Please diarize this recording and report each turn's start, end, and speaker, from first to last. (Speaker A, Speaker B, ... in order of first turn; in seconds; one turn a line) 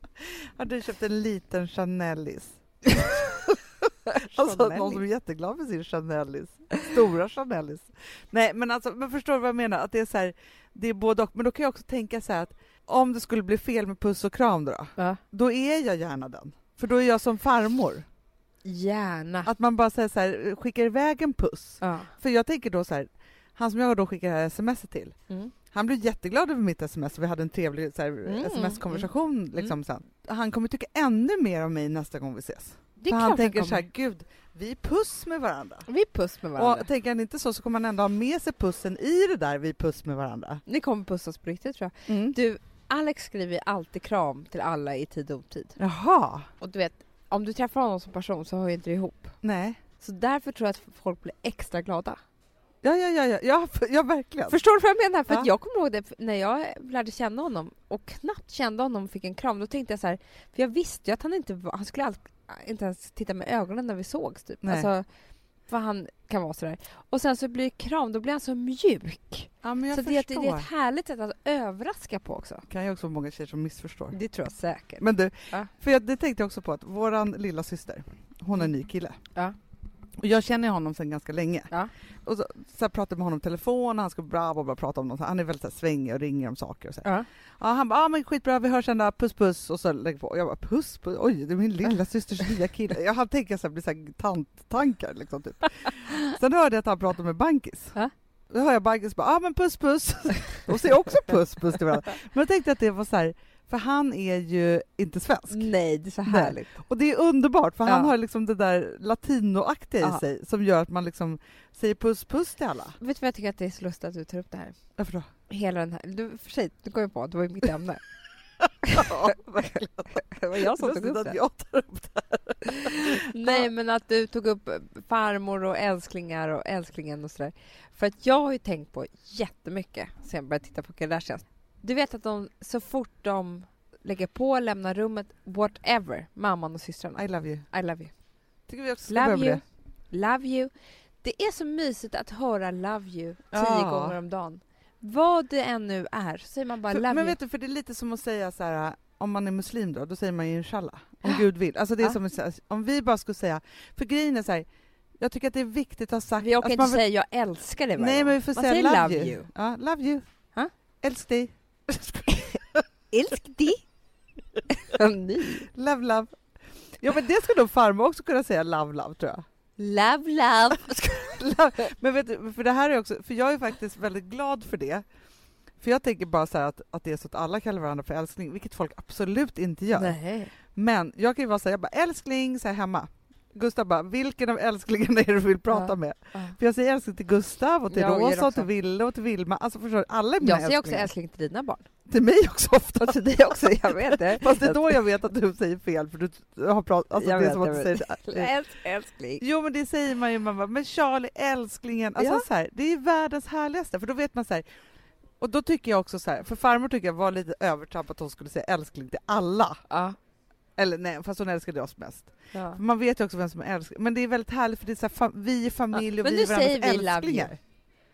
Speaker A: 0.2-3.1
Speaker B: 2.9-3.5
Speaker B: 4.1-5.0
Speaker A: 4.1-18.1
Speaker B: 18.6-19.5
Speaker A: 19.4-25.2
Speaker B: 21.8-22.1
Speaker A: 25.7-35.9
Speaker B: 28.2-29.7
Speaker B: 33.0-33.9
Speaker B: 35.9-36.9
Speaker A: 36.6-40.6
Speaker B: 40.7-45.8
Speaker A: 42.1-42.4
Speaker A: 45.8-46.5
Speaker B: 46.6-49.4
Speaker A: 49.4-49.8
Speaker B: 50.0-52.2
Speaker A: 52.8-54.6
Speaker B: 54.5-65.1
Speaker A: 64.6-64.9
Speaker B: 65.7-72.7
Speaker A: 69.6-70.7
Speaker A: 72.7-74.2
Speaker B: 74.1-75.7
Speaker A: 75.0-79.2
Speaker A: 80.2-81.7
Speaker A: 82.2-98.0
Speaker A: 98.5-105.7
Speaker B: 105.5-106.7
Speaker A: 106.2-113.0
Speaker B: 113.0-114.8
Speaker A: 115.0-115.3
Speaker B: 115.5-118.0
Speaker B: 118.8-119.3
Speaker A: 118.9-123.6
Speaker B: 120.2-121.4
Speaker B: 123.1-138.1
Speaker A: 137.2-137.7
Speaker A: 138.7-139.6
Speaker B: 139.1-147.4
Speaker A: 143.5-144.2
Speaker A: 146.9-154.7
Speaker A: 155.2-157.0
Speaker B: 156.4-159.5
Speaker A: 158.0-160.2
Speaker A: 161.0-162.8
Speaker B: 163.1-163.8
Speaker B: 164.7-165.7
Speaker A: 165.7-169.4
Speaker B: 169.8-171.4
Speaker A: 171.3-175.1
Speaker A: 175.8-180.2
Speaker B: 179.9-180.5
Speaker A: 180.7-191.1
Speaker B: 185.7-186.6
Speaker B: 187.9-188.7
Speaker B: 190.4-191.9
Speaker A: 192.1-198.5
Speaker B: 193.0-195.0
Speaker B: 197.2-199.4
Speaker A: 199.4-204.7
Speaker B: 202.2-202.5
Speaker A: 205.4-209.8
Speaker B: 209.9-210.2
Speaker A: 210.8-217.6
Speaker B: 212.5-212.8
Speaker B: 215.9-217.5